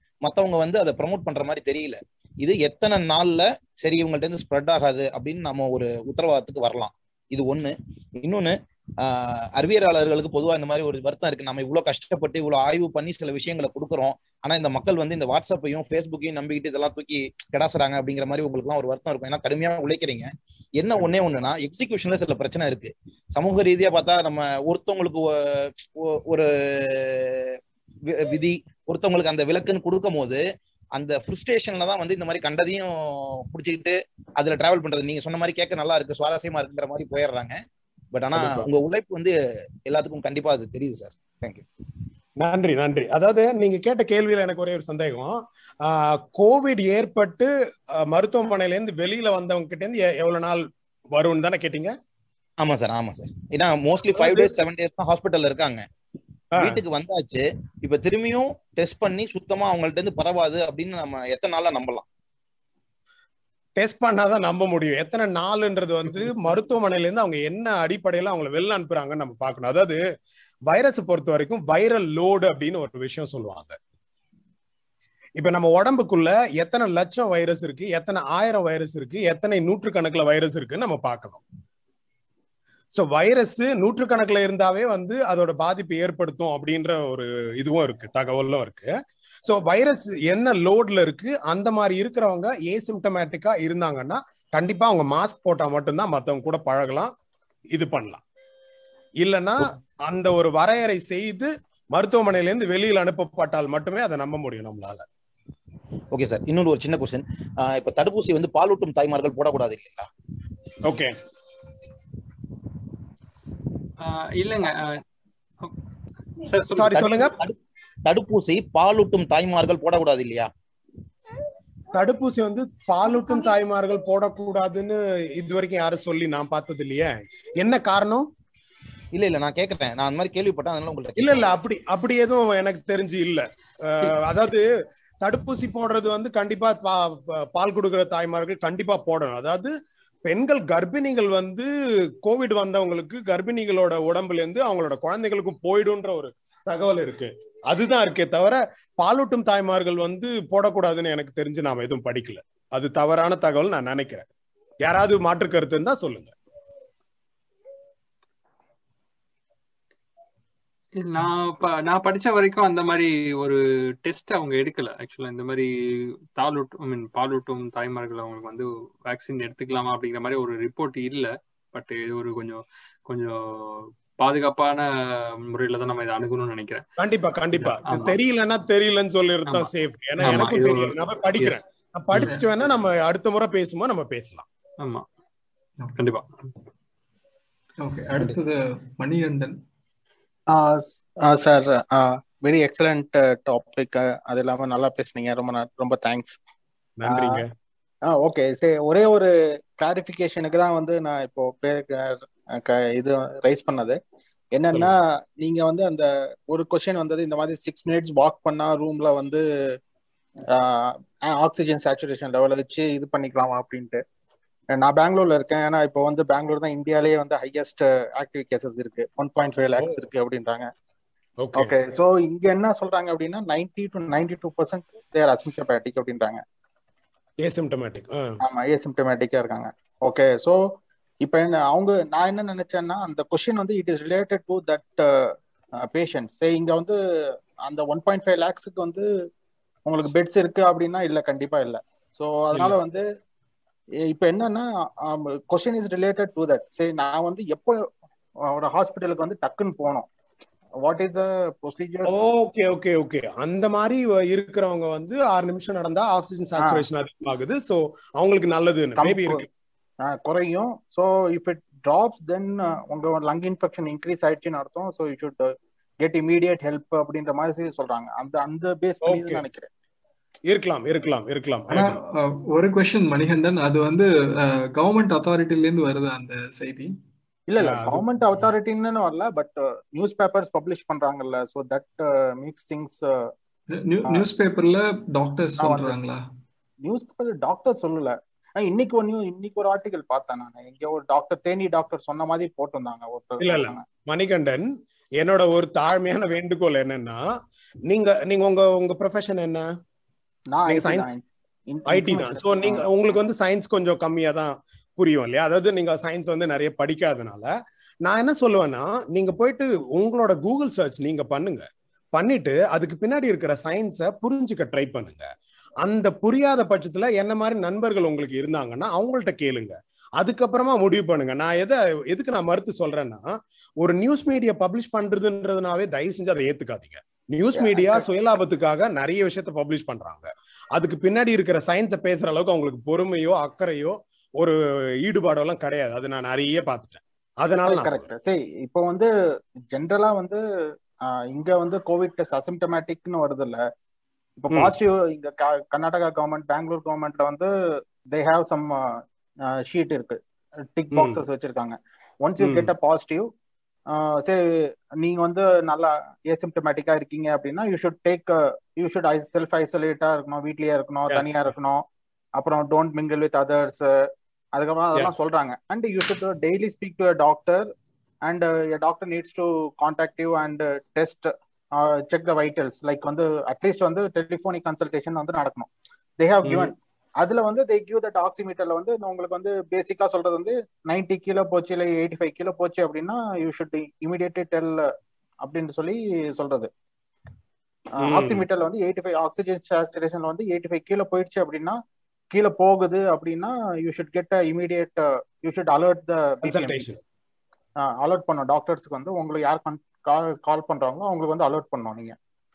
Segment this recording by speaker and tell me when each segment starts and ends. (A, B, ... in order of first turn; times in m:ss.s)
0:00.2-0:27.6 A
0:28.1-0:30.4 A
0:31.0-0:37.6 A
0:38.1-0:41.6 A
0:38.3-0:38.7 B
0:42.4-0:51.9 B
0:52.6-0:55.8 A
0:54.2-0:54.5 B
0:56.5-1:02.0 A
1:03.8-1:10.0 B
1:10.7-1:13.8 B
1:15.4-1:21.4 B
1:22.9-1:28.9 B
1:29.4-1:37.1 B
1:37.7-1:38.2 B
1:39.2-1:45.0 B
1:46.1-1:50.1 A
1:50.8-1:51.2 B
1:54.0-1:55.0 C
1:56.4-1:57.3 C
1:56.7-1:57.4 B
1:57.0-1:57.5 A
1:58.1-2:00.5 A
2:01.9-2:08.2 B
2:09.1-2:11.6 A
2:11.2-2:14.6 B
2:15.2-2:19.7 B
2:20.2-2:21.7 B
2:22.2-2:34.2 B
2:34.8-2:36.3 B
2:40.9-2:56.8 C
2:57.0-3:04.4 B
2:57.5-2:58.2 C
2:59.5-3:01.6 C
3:02.2-3:02.5 D
3:05.9-3:06.4 C
3:07.8-3:09.6 D
3:10.5-3:16.4 E
3:17.0-3:17.4 B
3:17.0-3:17.4 E
3:18.1-3:24.0 E
3:24.5-3:29.7 E
3:30.5-3:34.0 E
3:34.7-3:40.7 E
3:39.8-3:40.0 B
3:41.4-3:41.8 B
3:41.5-3:46.4 E
3:47.4-3:48.4 B
3:48.4-3:50.6 E
3:51.2-3:57.0 E
3:57.6-3:59.0 E
3:59.8-4:03.0 E
4:04.1-4:07.8 E
4:08.5-4:10.1 E
4:10.8-4:12.1 E
4:12.0-4:19.5 B
4:16.6-4:16.8 E
4:19.0-4:19.4 E
4:20.0-4:29.7 E
4:29.0-4:29.4 B
4:30.5-4:32.0 B
4:31.7-4:36.9 D
4:37.5-4:43.3 E
4:37.6-4:38.5 B
4:43.7-4:46.2 D
4:45.6-4:45.9 E
4:46.8-4:53.8 E
4:53.4-4:57.2 B
4:57.9-4:59.7 B
5:00.5-5:02.9 E
5:00.7-5:01.1 B
5:01.9-5:07.5 B
5:08.0-5:15.2 B
5:15.8-5:23.3 B
5:23.8-5:38.1 B
5:27.5-5:28.0 E
5:37.6-5:39.1 E
5:39.7-5:40.4 E
5:41.1-5:43.6 E
5:44.4-5:47.5 E
5:48.0-5:50.2 E
5:50.8-5:53.3 E
5:50.9-5:51.2 B
5:52.4-5:52.7 B
5:53.9-5:54.4 E
5:55.0-6:01.8 E
6:02.4-6:03.9 E
6:04.5-6:07.7 E
6:08.2-6:24.9 E
6:16.4-6:16.7 B
6:25.4-6:26.7 E
6:27.9-6:31.8 E
6:28.0-6:28.4 B
6:32.3-6:36.9 E
6:36.4-6:37.0 B
6:37.8-6:42.2 E